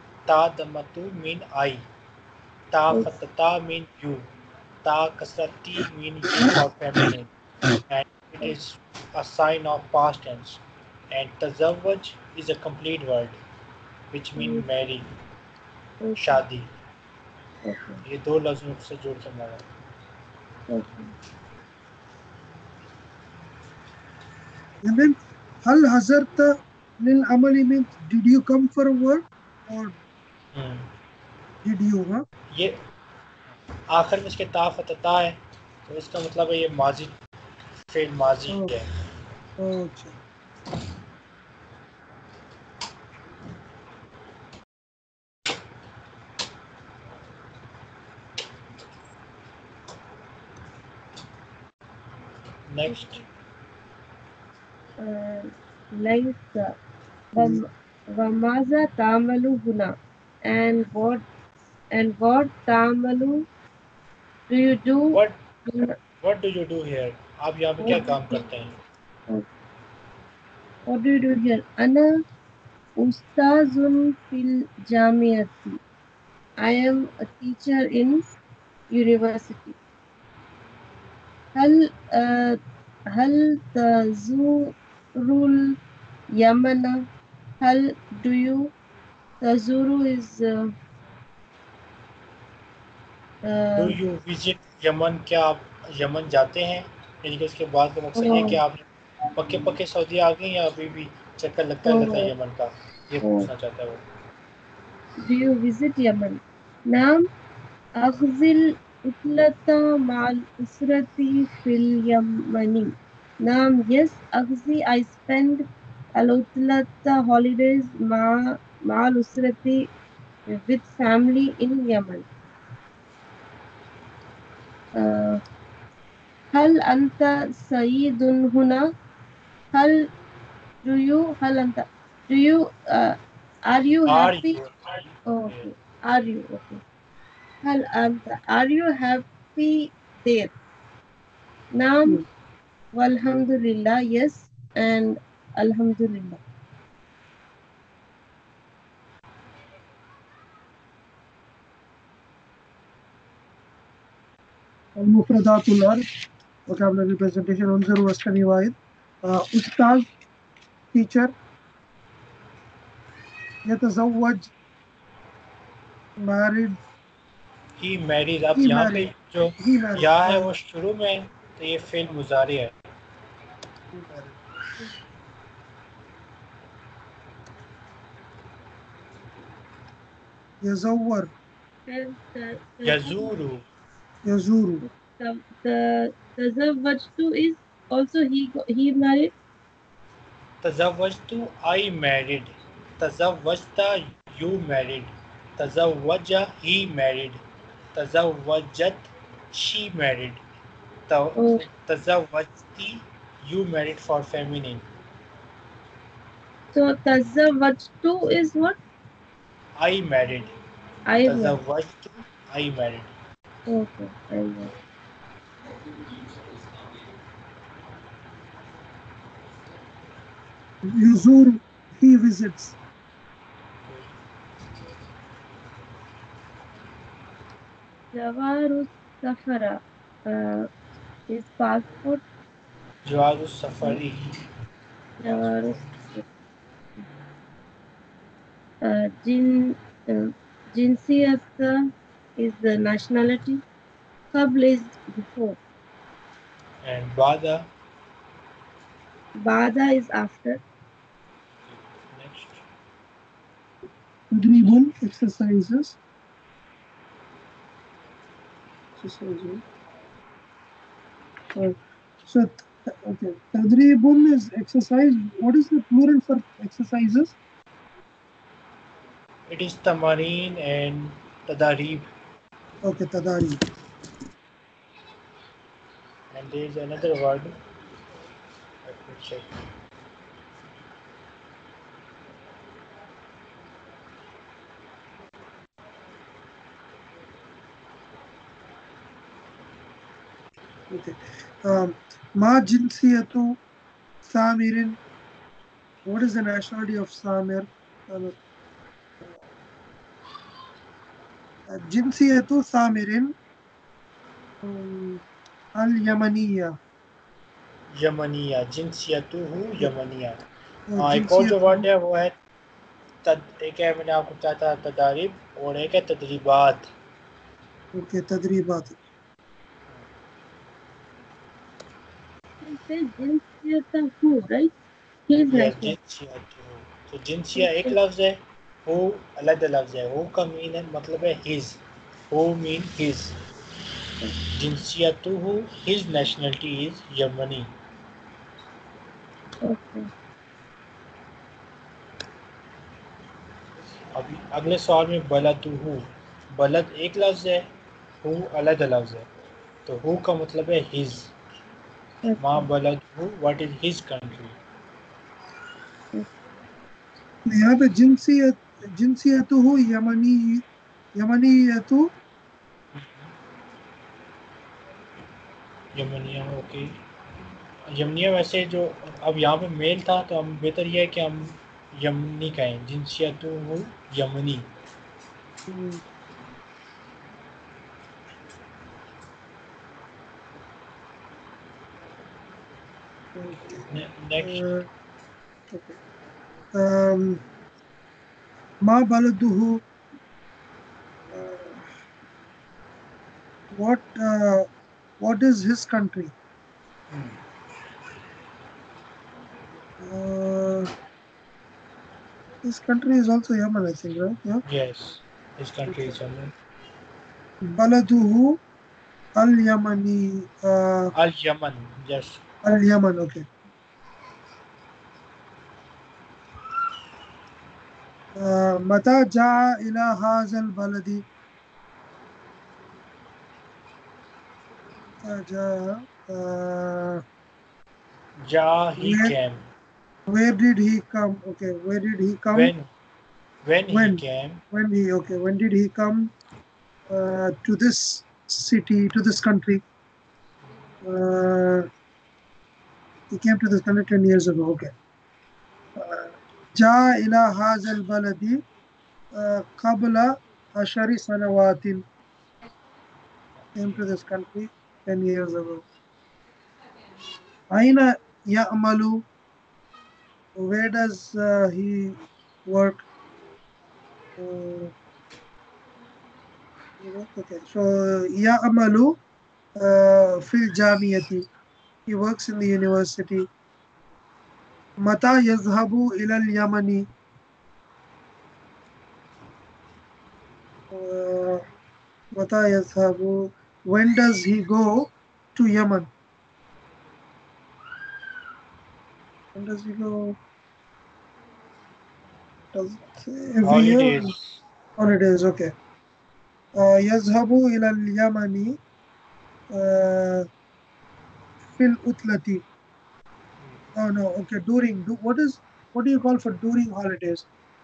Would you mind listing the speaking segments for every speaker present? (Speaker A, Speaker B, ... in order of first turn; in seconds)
Speaker A: 0.2-1.8, 2.7-4.2, 4.8-7.3, 7.9-13.4, 14.1-15.1, 16.2-16.7, 18.0-19.6, 30.5-30.9, 32.5-32.8, 33.9-37.1, 37.9-38.9, 52.7-53.2, 66.2-68.8, 93.7-104.0, 134.1-135.7, 167.8-172.7, 182.8-183.6, 190.6-197.4, 197.9-200.4, 201.1-204.8, 209.8-210.5, 211.2-213.1, 223.8-224.1, 233.1-234.3, 235.2-235.9, 246.8-247.7, 251.7-252.6, 269.5-272.1, 276.3-277.5, 278.8-279.5, 308.0-310.4, 311.0-312.3, 313.2-316.9, 325.5-333.3, 334.5-337.7, 344.1-346.0, 346.5-347.6, 348.2-349.3, 349.9-351.3, 352.4-354.6, 362.9-363.3, 365.9-366.9, 367.9-374.6, 383.9-384.6, 397.1-397.4, 404.6-406.5, 411.1-412.4, 428.4-429.6, 432.5-432.9, 433.6-434.6, 493.6-494.6
Speaker B: 2.9-3.2, 14.4-14.6, 16.0-16.4, 17.6-18.0, 20.7-21.1, 55.0-56.7, 57.3-61.2, 61.9-63.5, 64.5-65.9, 67.8-68.4, 70.8-72.2, 73.0-75.8, 76.6-78.2, 78.9-79.8, 81.5-82.6, 83.1-85.8, 86.3-87.1, 87.6-88.7, 89.4-90.7, 93.4-94.0, 98.2-98.6, 101.8-102.3, 103.2-103.5, 105.2-107.2, 108.0-115.6, 116.2-119.9, 120.5-122.2, 124.9-125.4, 126.5-128.9, 129.7-130.1, 130.8-134.6, 135.2-136.8, 137.6-140.5, 141.7-142.2, 142.9-146.4, 181.9-183.3, 184.8-189.3, 201.4-201.6, 206.7-208.8, 211.1-211.6, 213.7-214.7, 228.1-230.7, 231.3-232.2, 235.2-236.2, 238.8-241.8, 242.4-243.6, 244.3-245.6, 249.4-250.6, 322.6-324.7, 325.3-325.9, 327.6-327.9, 339.6-340.1, 352.2-352.7
Speaker C: 24.8-29.9, 31.6-32.2, 39.6-40.1, 57.4-57.6, 154.9-156.0, 156.7-160.1, 160.9-161.3, 163.6-164.5, 166.2-166.8, 168.6-170.5, 173.9-174.3, 180.6-181.3, 184.2-184.8, 220.8-222.7, 254.3-256.0, 259.0-259.6, 261.5-267.3, 272.8-273.6, 290.9-293.6, 294.2-295.0, 296.0-298.4, 301.7-303.3, 304.6-305.2, 305.8-306.7, 310.9-311.8, 317.9-319.0, 357.4-360.6, 361.1-362.1, 375.7-376.0, 383.3-383.8, 384.4-384.9, 385.7-385.9, 386.7-387.4, 388.8-389.8, 391.3-391.9, 393.7-394.7, 395.2-396.3, 400.0-400.9, 402.6-404.6, 405.9-406.1, 407.7-408.6, 409.4-411.1, 412.6-413.4, 418.4-421.2, 425.2-427.2, 429.0-429.3, 430.3-432.7, 433.9-436.3, 437.1-439.8, 441.0-441.9, 443.3-444.9, 445.9-448.6, 449.3-452.0, 453.8-455.8, 457.7-459.2, 460.6-463.0, 464.4-464.9, 467.0-469.2, 469.8-471.5, 472.1-473.5, 475.0-477.0, 480.9-481.6, 482.4-486.1, 489.5-490.4, 492.7-494.3, 495.0-495.7, 496.7-498.8, 499.7-500.4, 501.7-502.6, 503.9-507.5